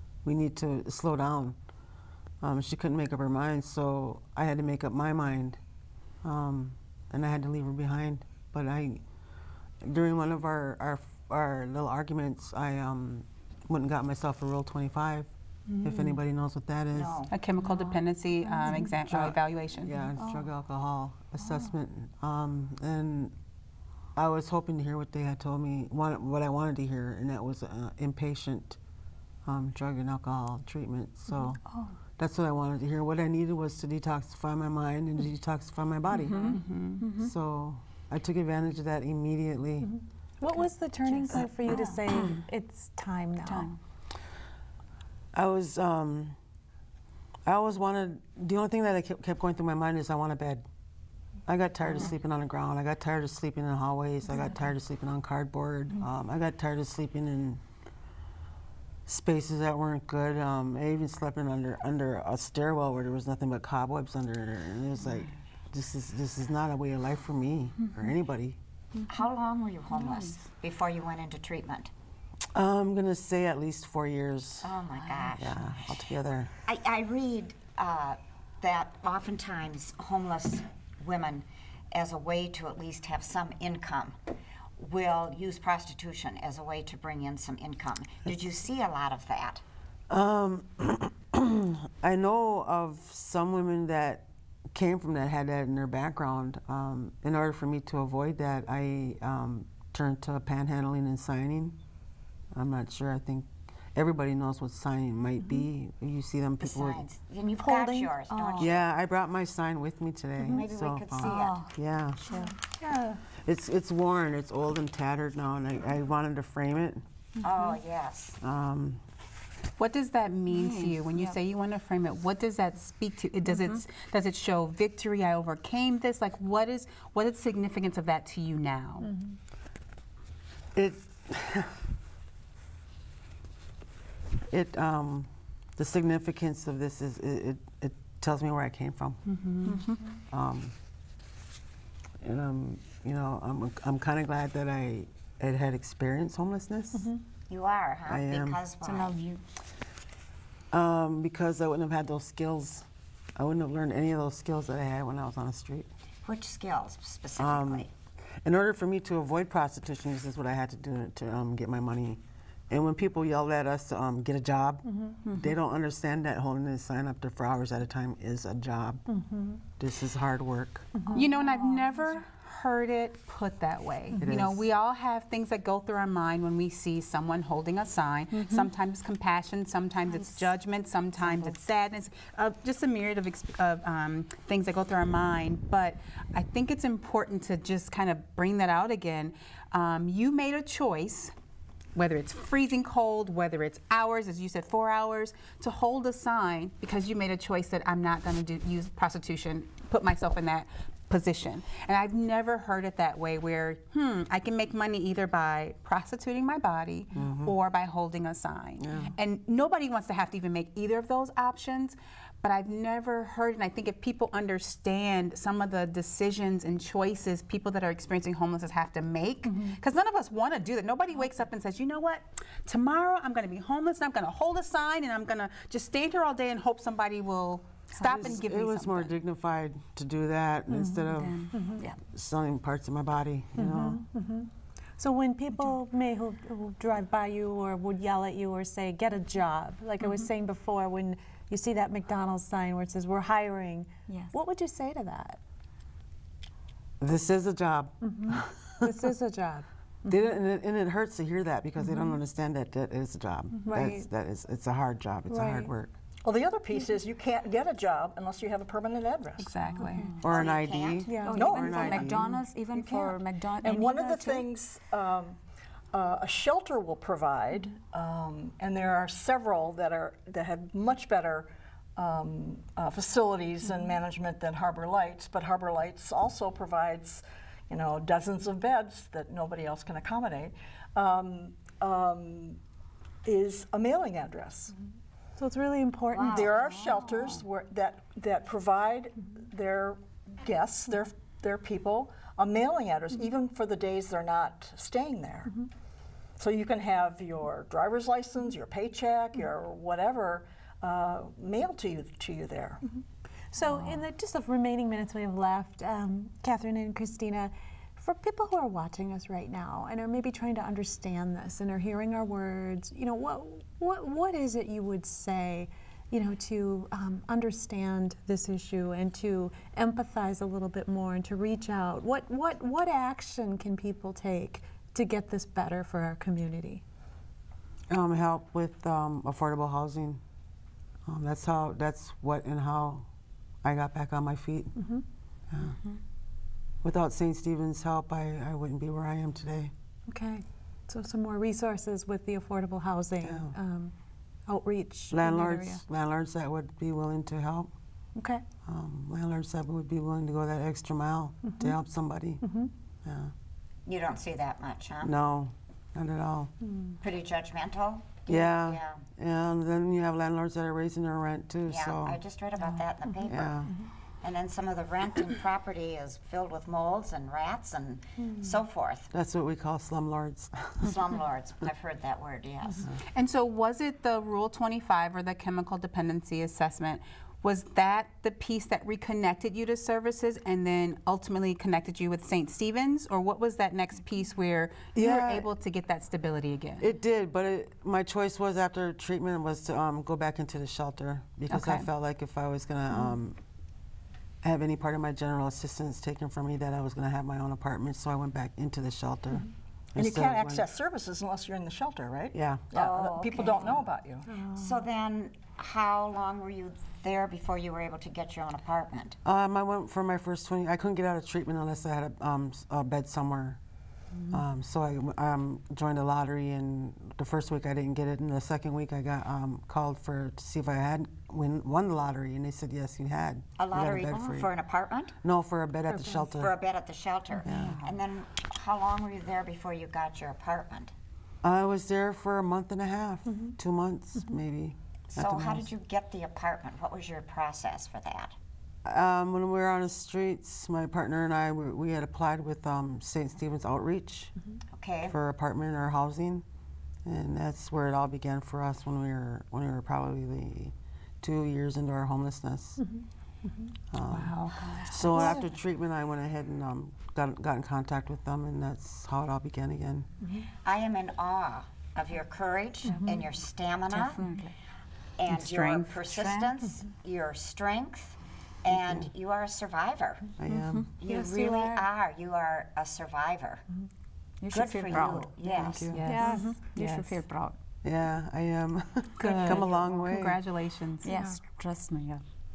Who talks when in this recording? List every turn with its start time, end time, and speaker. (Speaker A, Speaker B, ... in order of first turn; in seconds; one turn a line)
Speaker A: 0.2-1.6
Speaker A: 2.4-5.6
Speaker A: 6.2-9.0
Speaker A: 9.8-15.3
Speaker A: 15.8-17.2
Speaker B: 16.9-17.3
Speaker C: 17.3-20.0
Speaker D: 17.6-18.0
Speaker A: 19.1-23.3
Speaker A: 24.1-28.8
Speaker A: 29.4-31.6
Speaker D: 31.7-31.9
Speaker A: 32.2-36.6
Speaker D: 36.2-37.3
Speaker C: 36.3-37.0
Speaker A: 37.2-39.9
Speaker E: 39.8-43.7
Speaker D: 41.1-42.4
Speaker D: 43.4-43.8
Speaker A: 45.3-46.4
Speaker A: 47.4-50.6
Speaker A: 51.5-57.6
Speaker A: 59.1-68.6
Speaker B: 69.1-71.9
Speaker A: 72.5-74.7
Speaker B: 74.6-75.8
Speaker A: 75.3-76.5
Speaker B: 76.7-84.2
Speaker B: 84.8-89.6
Speaker A: 90.1-101.8
Speaker A: 102.5-107.0
Speaker B: 106.6-108.8
Speaker D: 107.6-108.7
Speaker A: 108.6-112.2
Speaker B: 110.4-111.7
Speaker D: 111.2-112.5
Speaker E: 112.3-113.2
Speaker A: 113.4-117.0
Speaker B: 117.4-118.4
Speaker D: 117.4-117.8
Speaker A: 118.4-119.0
Speaker C: 119.8-129.1
Speaker D: 120.5-121.3
Speaker E: 129.0-129.3
Speaker A: 130.7-131.8
Speaker A: 134.5-139.2
Speaker C: 139.3-139.8
Speaker D: 139.7-139.9
Speaker A: 140.3-140.7
Speaker A: 142.2-147.1
Speaker E: 146.9-147.2
Speaker B: 147.5-149.2
Speaker A: 148.1-148.6
Speaker D: 148.8-149.4
Speaker A: 150.7-155.9
Speaker B: 156.2-157.9
Speaker A: 157.4-157.9
Speaker A: 158.4-169.1
Speaker E: 164.9-165.2
Speaker E: 169.1-169.6
Speaker A: 169.8-171.0
Speaker E: 170.9-171.4
Speaker C: 171.1-191.3
Speaker A: 174.2-174.6
Speaker C: 191.9-229.1
Speaker A: 207.1-207.6
Speaker A: 208.8-209.1
Speaker E: 219.5-219.7
Speaker A: 228.0-234.0
Speaker D: 231.1-232.0
Speaker E: 231.5-231.8
Speaker E: 233.6-245.4
Speaker D: 240.0-240.3
Speaker D: 244.1-244.4
Speaker A: 247.0-248.9
Speaker E: 248.0-250.2
Speaker A: 250.1-255.9
Speaker E: 251.9-252.1
Speaker E: 253.6-254.1
Speaker E: 255.3-255.7
Speaker F: 256.2-259.6
Speaker C: 259.4-260.1
Speaker E: 259.8-260.1
Speaker D: 259.8-260.2
Speaker B: 260.2-261.2
Speaker A: 260.2-262.4
Speaker E: 261.1-261.5
Speaker D: 261.1-264.5
Speaker F: 261.2-265.4
Speaker F: 265.9-282.6
Speaker F: 283.2-284.7
Speaker E: 285.4-286.5
Speaker B: 286.1-287.4
Speaker F: 286.2-295.6
Speaker F: 296.4-302.8
Speaker E: 303.5-326.8
Speaker A: 327.9-330.2
Speaker A: 331.1-333.1
Speaker A: 333.6-334.8
Speaker E: 334.8-335.0
Speaker A: 335.5-335.8
Speaker A: 336.8-339.7
Speaker E: 340.1-343.9
Speaker A: 343.2-343.6
Speaker E: 344.5-345.8
Speaker A: 345.1-347.7
Speaker E: 348.1-348.4
Speaker A: 348.6-352.4
Speaker E: 351.5-351.7
Speaker E: 352.4-352.7
Speaker A: 353.0-353.3
Speaker B: 353.9-355.1
Speaker A: 355.0-356.5
Speaker B: 357.0-359.0
Speaker A: 358.3-362.2
Speaker B: 361.6-369.1
Speaker A: 363.2-363.7
Speaker A: 369.1-370.9
Speaker B: 370.8-372.9
Speaker C: 373.1-386.9
Speaker A: 384.9-385.5
Speaker A: 386.8-393.4
Speaker C: 391.5-391.9
Speaker A: 394.4-400.6
Speaker F: 399.9-404.3
Speaker A: 402.3-402.7
Speaker B: 402.7-403.9
Speaker E: 404.3-404.7
Speaker B: 404.5-409.1
Speaker A: 409.2-413.6
Speaker A: 414.3-424.5
Speaker B: 423.6-425.1
Speaker A: 425.2-426.5
Speaker E: 425.9-426.2
Speaker B: 426.3-430.9
Speaker A: 427.4-427.9
Speaker A: 431.4-435.7
Speaker B: 435.1-438.3
Speaker A: 438.8-444.3
Speaker B: 444.7-445.1
Speaker A: 445.1-446.4
Speaker A: 447.0-452.9
Speaker A: 453.9-460.1
Speaker D: 454.1-455.4
Speaker B: 460.6-464.2
Speaker D: 462.9-463.2
Speaker D: 463.9-464.5
Speaker B: 465.2-470.3
Speaker D: 465.3-466.6
Speaker A: 468.7-469.1
Speaker A: 470.4-470.9
Speaker D: 470.7-471.8
Speaker B: 471.0-473.6
Speaker D: 474.4-477.6
Speaker B: 474.5-476.0
Speaker A: 475.5-476.0
Speaker E: 476.0-477.1
Speaker C: 476.1-476.5
Speaker A: 477.8-480.4
Speaker C: 479.2-481.1
Speaker D: 479.2-479.8
Speaker D: 481.0-482.2
Speaker E: 481.1-481.4